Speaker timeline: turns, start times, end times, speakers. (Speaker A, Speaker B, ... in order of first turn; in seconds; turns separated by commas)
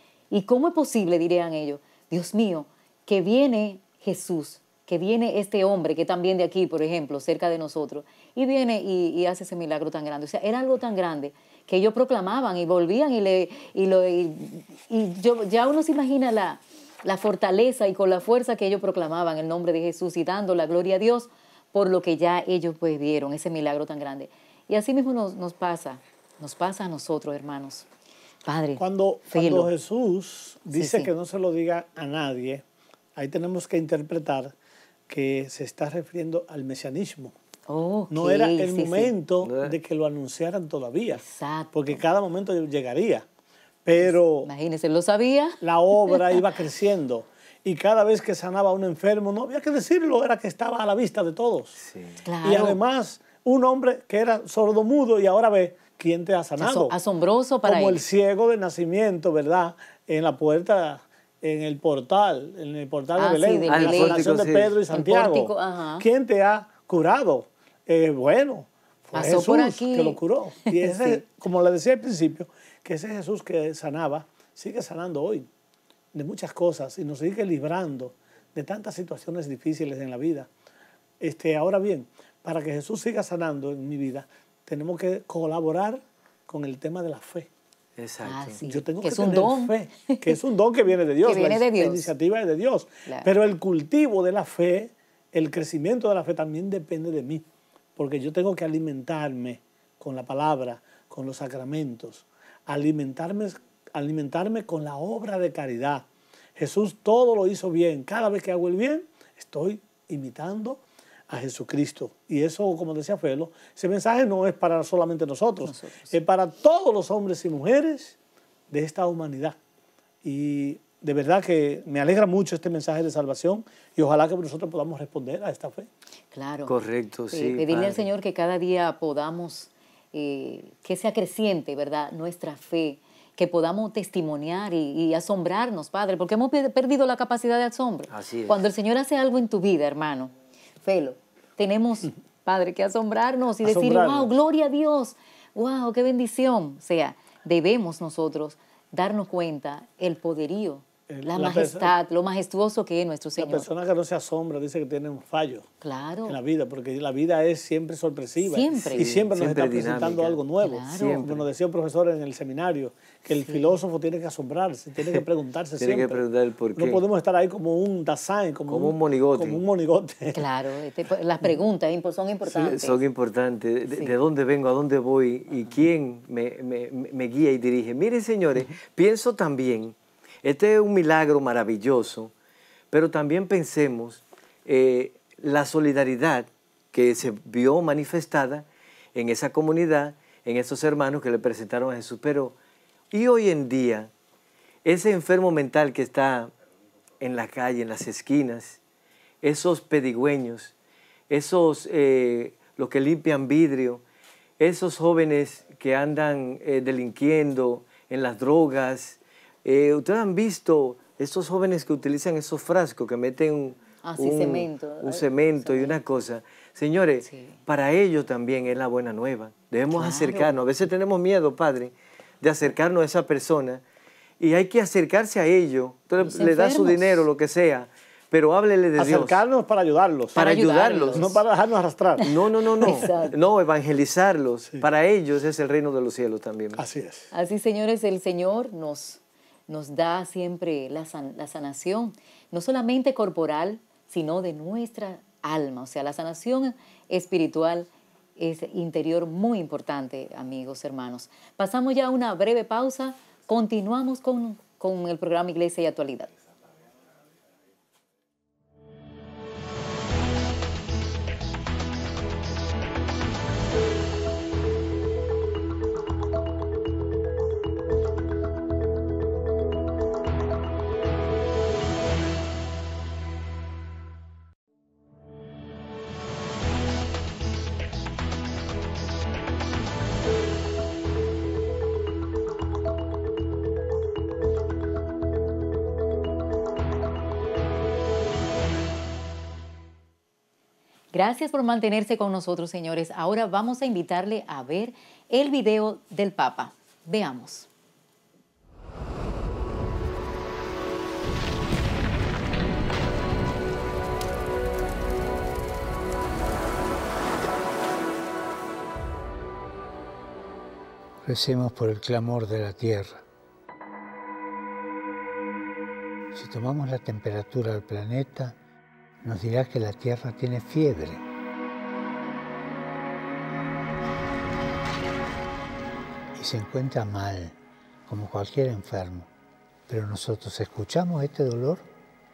Speaker A: 0.3-27.9, Speaker A: 28.4-29.7, Speaker B: 28.8-32.6, Speaker A: 30.7-31.1, Speaker B: 33.2-34.5, Speaker B: 35.1-37.4, Speaker A: 37.7-39.1, Speaker B: 38.1-43.3, Speaker C: 39.4-39.8, Speaker A: 41.1-42.0, Speaker B: 43.9-44.5, Speaker A: 44.0-46.5, Speaker B: 45.6-51.8, Speaker C: 51.8-52.2, Speaker A: 52.2-52.8, Speaker B: 52.4-57.0, Speaker A: 56.6-58.0, Speaker B: 57.6-75.5, Speaker A: 63.2-64.3, Speaker C: 63.7-64.8, Speaker A: 64.9-66.0, Speaker A: 69.1-70.2, Speaker A: 70.7-71.2, Speaker B: 76.1-80.5, Speaker B: 81.2-87.5, Speaker C: 88.0-88.6, Speaker A: 88.2-90.4, Speaker B: 88.6-97.5, Speaker A: 91.2-92.1, Speaker B: 98.0-106.1, Speaker B: 106.6-118.2, Speaker A: 115.6-116.2, Speaker B: 118.7-119.6, Speaker B: 120.2-125.9, Speaker A: 126.3-126.7, Speaker C: 126.7-128.1, Speaker A: 127.3-153.7, Speaker C: 138.1-138.6, Speaker B: 143.6-144.3, Speaker B: 151.1-151.9, Speaker B: 153.4-155.7, Speaker A: 155.8-156.4, Speaker B: 156.3-166.2, Speaker A: 158.4-159.1, Speaker C: 159.0-160.4, Speaker A: 160.6-161.2, Speaker C: 160.9-161.5, Speaker A: 163.3-163.8, Speaker C: 165.8-167.0, Speaker B: 166.8-170.4, Speaker C: 168.7-169.6, Speaker A: 170.3-173.0, Speaker C: 172.5-182.3, Speaker C: 182.9-192.6, Speaker C: 193.1-194.1, Speaker C: 194.8-196.5, Speaker C: 197.2-198.8, Speaker C: 199.4-200.7, Speaker C: 201.3-204.0, Speaker C: 204.6-223.8, Speaker A: 214.0-216.0, Speaker A: 217.3-217.6, Speaker A: 219.9-220.5, Speaker C: 224.4-229.4, Speaker A: 226.2-227.2, Speaker B: 229.0-230.4, Speaker C: 230.3-231.3, Speaker A: 230.3-231.4, Speaker B: 231.1-232.3, Speaker A: 232.2-233.3, Speaker C: 232.2-236.8, Speaker B: 232.8-233.1, Speaker B: 236.8-237.3, Speaker A: 237.3-256.3, Speaker A: 291.1-297.7, Speaker D: 311.2-313.2, Speaker D: 316.3-318.6, Speaker D: 319.2-321.2, Speaker D: 326.4-329.3, Speaker D: 329.9-331.9